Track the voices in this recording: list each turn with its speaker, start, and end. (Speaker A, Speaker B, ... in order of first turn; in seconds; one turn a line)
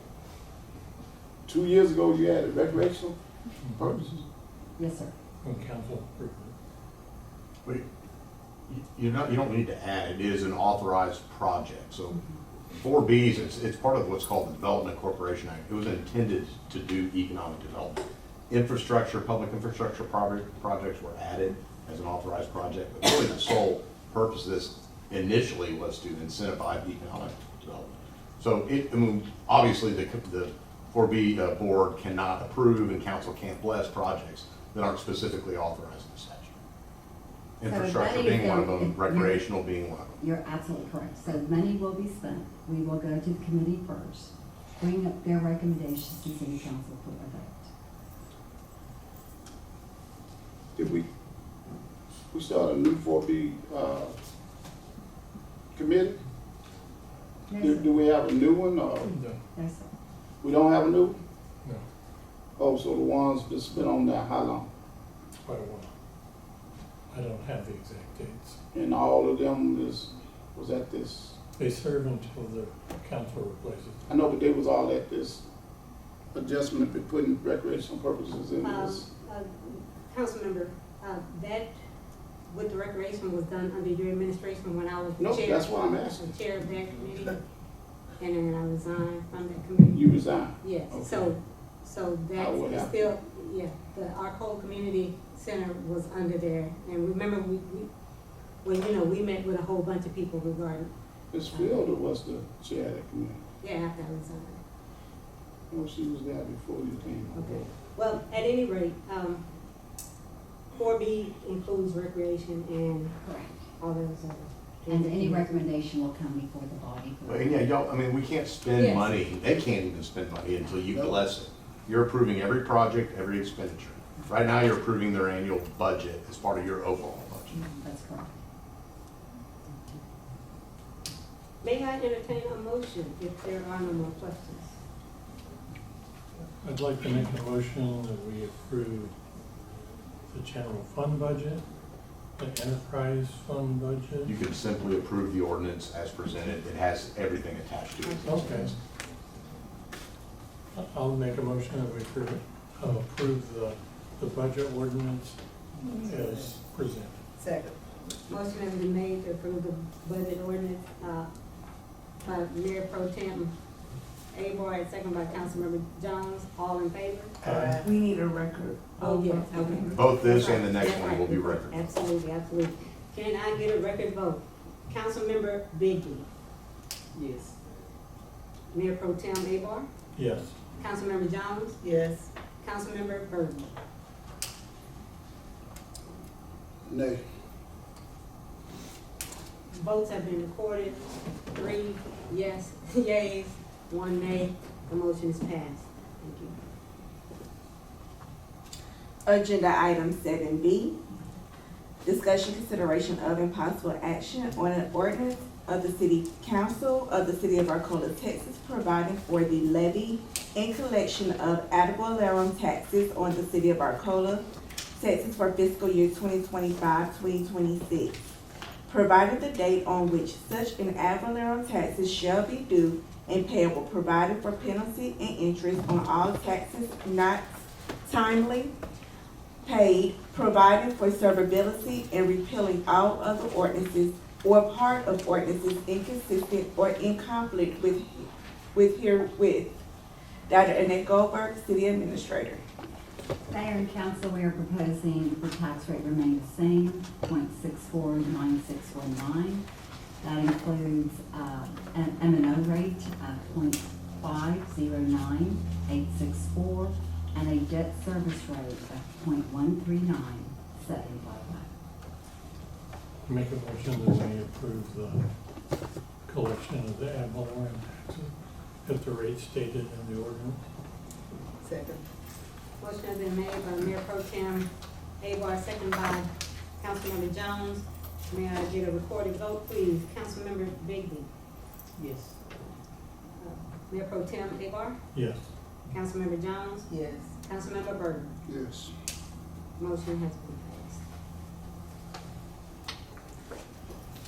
Speaker A: 1.4-3.2
Speaker B: 3.6-4.0
Speaker A: 3.8-4.2
Speaker C: 4.8-5.1
Speaker B: 5.4-6.5
Speaker D: 8.7-12.2
Speaker D: 12.7-36.5
Speaker D: 37.6-40.2
Speaker C: 37.6-39.5
Speaker C: 40.2-47.7
Speaker A: 50.8-51.1
Speaker A: 52.3-54.1
Speaker A: 55.7-56.2
Speaker C: 57.5-57.9
Speaker A: 57.6-59.1
Speaker B: 59.0-59.4
Speaker C: 59.5-59.9
Speaker A: 60.4-61.2
Speaker A: 62.6-64.7
Speaker B: 65.4-65.9
Speaker B: 67.1-68.6
Speaker A: 68.7-71.4
Speaker B: 71.6-74.0
Speaker A: 74.1-75.4
Speaker A: 76.3-79.1
Speaker E: 78.6-81.7
Speaker E: 82.5-87.4
Speaker A: 85.2-86.3
Speaker E: 88.2-97.9
Speaker A: 89.9-91.3
Speaker A: 92.3-93.1
Speaker E: 98.6-100.9
Speaker A: 101.3-103.4
Speaker E: 101.5-101.8
Speaker E: 103.6-104.6
Speaker A: 105.7-107.7
Speaker E: 107.3-109.4
Speaker E: 110.7-113.2
Speaker C: 113.2-113.6
Speaker E: 113.8-115.7
Speaker C: 114.9-117.7
Speaker D: 117.2-127.6
Speaker E: 118.8-119.1
Speaker A: 120.9-121.2
Speaker C: 127.5-128.3
Speaker E: 131.6-134.8
Speaker B: 136.6-139.1
Speaker B: 140.3-141.7
Speaker B: 142.4-144.4
Speaker D: 144.2-148.8
Speaker B: 148.2-148.7
Speaker E: 148.2-148.7
Speaker B: 150.7-157.2
Speaker F: 155.9-156.5
Speaker F: 157.4-157.8
Speaker E: 158.3-161.3
Speaker E: 162.2-163.5
Speaker E: 164.3-167.3
Speaker B: 167.4-167.8
Speaker G: 167.4-170.0
Speaker E: 169.0-176.3
Speaker D: 169.9-171.9
Speaker F: 177.1-177.6
Speaker E: 178.7-179.9
Speaker B: 180.1-180.6
Speaker E: 180.8-181.8
Speaker F: 181.8-182.3
Speaker E: 182.6-183.7
Speaker A: 186.9-187.2
Speaker E: 189.7-196.5
Speaker G: 199.2-201.0
Speaker G: 202.0-214.4
Speaker G: 215.0-218.2
Speaker G: 218.9-228.7
Speaker G: 229.6-239.8
Speaker G: 240.5-242.6
Speaker C: 243.5-249.7
Speaker C: 250.2-261.7
Speaker B: 263.2-265.3
Speaker B: 266.2-268.3
Speaker B: 268.8-270.6
Speaker F: 271.6-272.0
Speaker E: 272.8-274.7
Speaker E: 275.2-276.3
Speaker E: 276.8-281.3
Speaker F: 282.0-282.4
Speaker E: 283.4-285.0
Speaker B: 285.1-285.4
Speaker E: 285.9-288.3
Speaker F: 286.9-287.3
Speaker A: 288.4-288.9
Speaker E: 289.8-291.0